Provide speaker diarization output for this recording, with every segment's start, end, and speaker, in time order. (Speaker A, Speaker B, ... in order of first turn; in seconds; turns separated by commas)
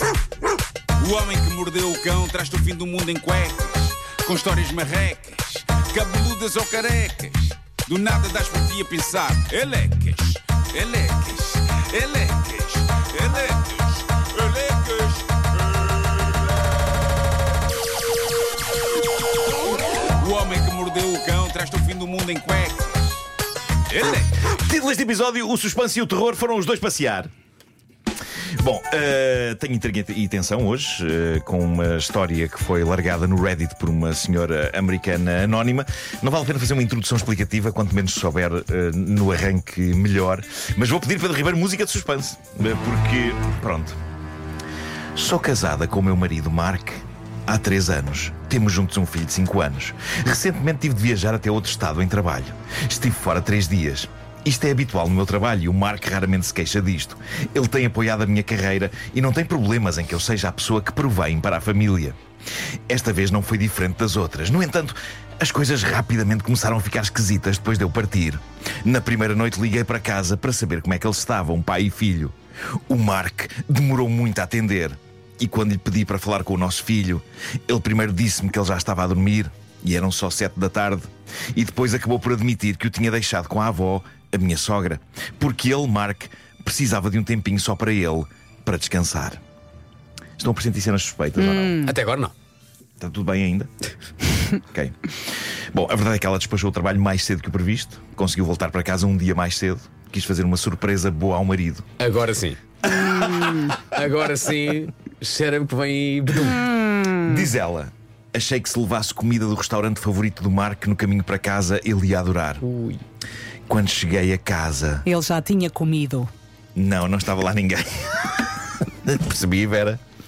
Speaker A: 1.0-16.3, Speaker A: 20.1-23.2, Speaker A: 23.9-24.3, Speaker B: 24.4-27.3, Speaker B: 28.6-44.0, Speaker B: 45.1-62.1, Speaker B: 62.9-72.3, Speaker B: 72.9-89.4, Speaker B: 90.4-91.9, Speaker C: 91.4-91.9, Speaker D: 91.8-92.3, Speaker B: 93.0-93.7, Speaker B: 94.5-101.9, Speaker D: 102.0-102.6, Speaker B: 102.8-103.8, Speaker D: 103.8-106.7, Speaker C: 106.6-107.4, Speaker B: 107.2-112.6, Speaker D: 112.6-113.0, Speaker B: 113.7-115.1, Speaker C: 115.0-116.3, Speaker B: 116.8-120.0